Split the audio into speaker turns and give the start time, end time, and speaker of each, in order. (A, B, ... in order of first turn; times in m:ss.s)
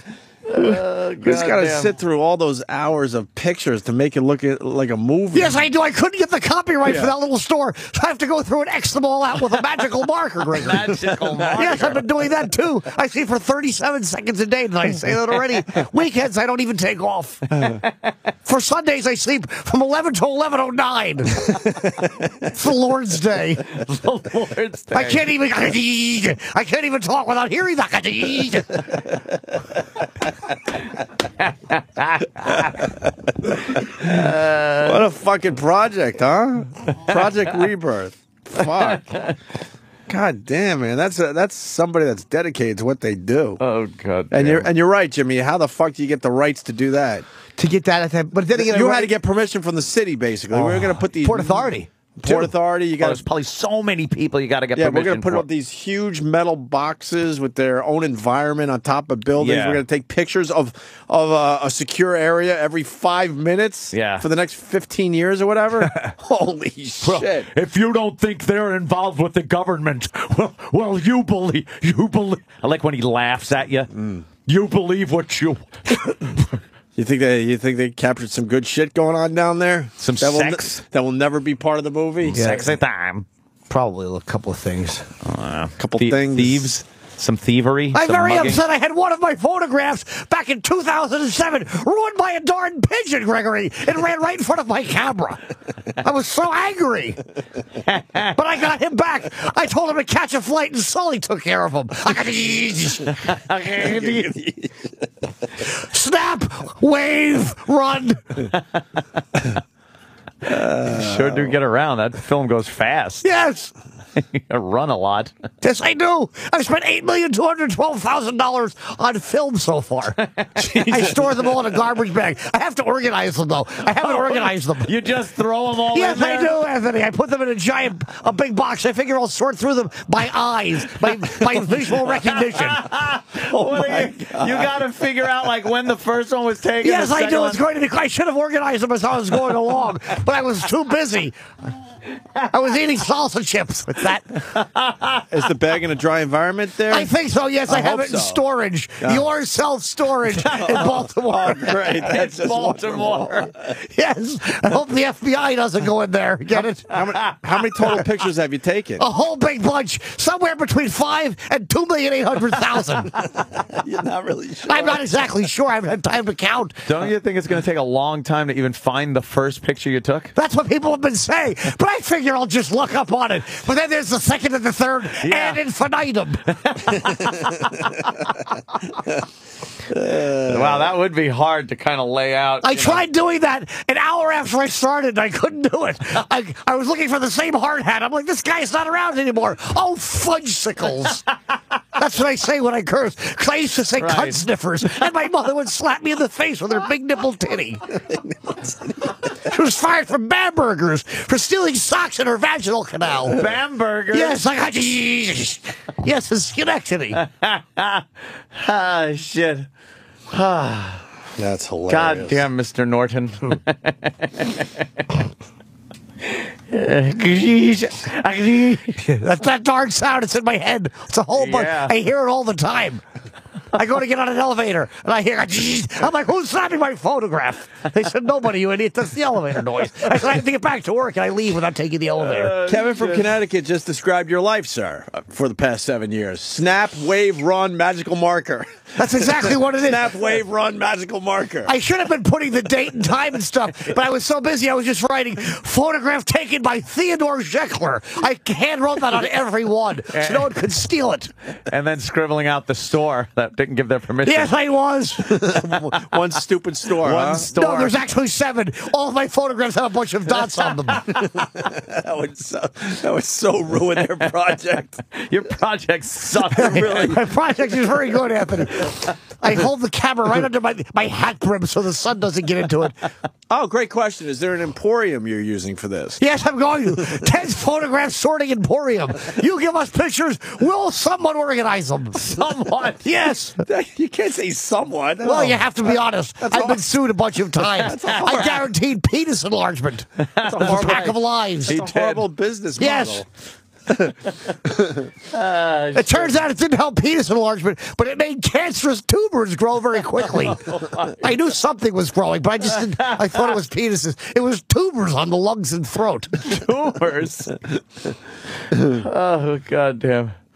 0:00.5-0:01.9 A
0:00.6-0:05.7 B
0:05.3-0:11.0 C
0:06.8-0:07.1 B
0:10.6-0:12.0 A
0:11.5-0:17.8 C
0:18.4-0:23.7 C
0:23.7-0:25.2 A
0:24.9-0:28.9 C
0:31.4-0:32.9 A
0:33.7-0:35.0 A
0:34.0-0:34.3 B
0:34.8-0:39.1 B
0:38.8-0:39.3 A
0:40.1-0:43.6 B
0:43.6-0:44.7 A
0:44.3-0:47.3 B
0:47.6-0:49.1 C
0:48.6-0:53.3 B
0:50.5-0:52.5 C
0:53.0-0:55.5 A
0:54.8-1:07.5 B
0:59.4-0:59.8 A
1:03.9-1:04.2 A
1:05.8-1:06.1 A
1:07.0-1:13.9 A
1:13.9-1:14.3 B
1:14.4-1:16.5 A
1:17.0-1:22.5 B
1:20.0-1:20.8 A
1:22.2-1:23.3 A
1:22.4-1:22.7 C
1:23.7-1:25.0 C
1:25.2-1:28.6 A
1:25.8-1:26.7 B
1:27.9-1:37.2 C
1:37.9-1:38.3 A
1:38.3-1:43.4 C
1:43.5-1:44.3 A
1:43.9-1:44.7 B
1:45.6-1:48.4 C
1:50.4-1:51.6 B
1:50.8-1:53.3 A
1:53.2-1:53.7 C
1:54.2-1:55.3 A
1:55.6-2:04.9 C
2:00.2-2:01.2 A
2:04.0-2:06.6 A
2:05.9-2:12.8 C
2:12.2-2:17.6 A
2:16.8-2:21.4 C
2:22.5-2:24.4 C
2:24.6-2:25.2 A
2:25.3-2:27.1 B
2:26.9-2:32.0 C
2:27.7-2:28.4 B
2:30.3-2:31.1 A
2:30.6-2:33.5 B
2:31.9-2:33.5 A
2:33.5-2:36.9 C
2:36.6-2:39.0 B
2:39.0-2:43.1 C
2:43.5-2:45.4 B
2:44.7-2:46.8 C
2:46.8-2:50.3 A
2:50.4-2:57.1 C
2:55.2-2:55.6 A
2:56.7-2:58.1 A
2:59.9-3:00.9 B
3:00.3-3:03.1 A
3:02.6-3:11.2 C
3:12.0-3:17.8 C
3:14.0-3:15.1 A
3:19.4-3:23.4 C
3:23.1-3:24.4 A
3:24.1-3:27.2 C
3:27.2-3:29.7 A
3:30.3-3:31.0 A
3:31.4-3:32.5 B
3:31.9-3:35.0 A
3:36.3-3:39.0 A
3:39.0-3:43.0 C
3:41.3-3:41.9 A
3:43.7-3:52.6 C
3:52.2-3:53.3 A
3:52.6-4:01.7 B
3:59.0-4:00.1 C
4:01.6-4:11.3 C
4:10.1-4:10.6 A
4:11.7-4:14.5 A
4:14.2-4:15.7 C
4:15.2-4:17.6 B
4:17.0-4:18.0 A
4:17.5-4:21.1 C
4:21.1-4:25.0 B
4:25.1-4:27.2 A
4:26.5-4:27.2 B
4:26.6-4:33.0 C
4:33.5-4:36.2 B
4:36.2-4:42.2 C
4:42.1-4:43.0 A
4:43.0-4:43.6 C
4:43.6-4:46.8 B
4:45.2-4:50.1 C
4:47.6-4:48.7 B
4:47.9-4:48.6 A
4:50.4-4:52.2 A
4:50.4-4:53.3 B
4:50.6-4:51.8 C
4:52.8-4:53.2 C
4:53.9-4:54.1 B
4:55.3-4:56.4 A
4:56.0-5:06.5 C
5:00.3-5:01.2 A
5:02.8-5:03.5 A
5:06.4-5:07.6 A
5:08.7-5:10.4 A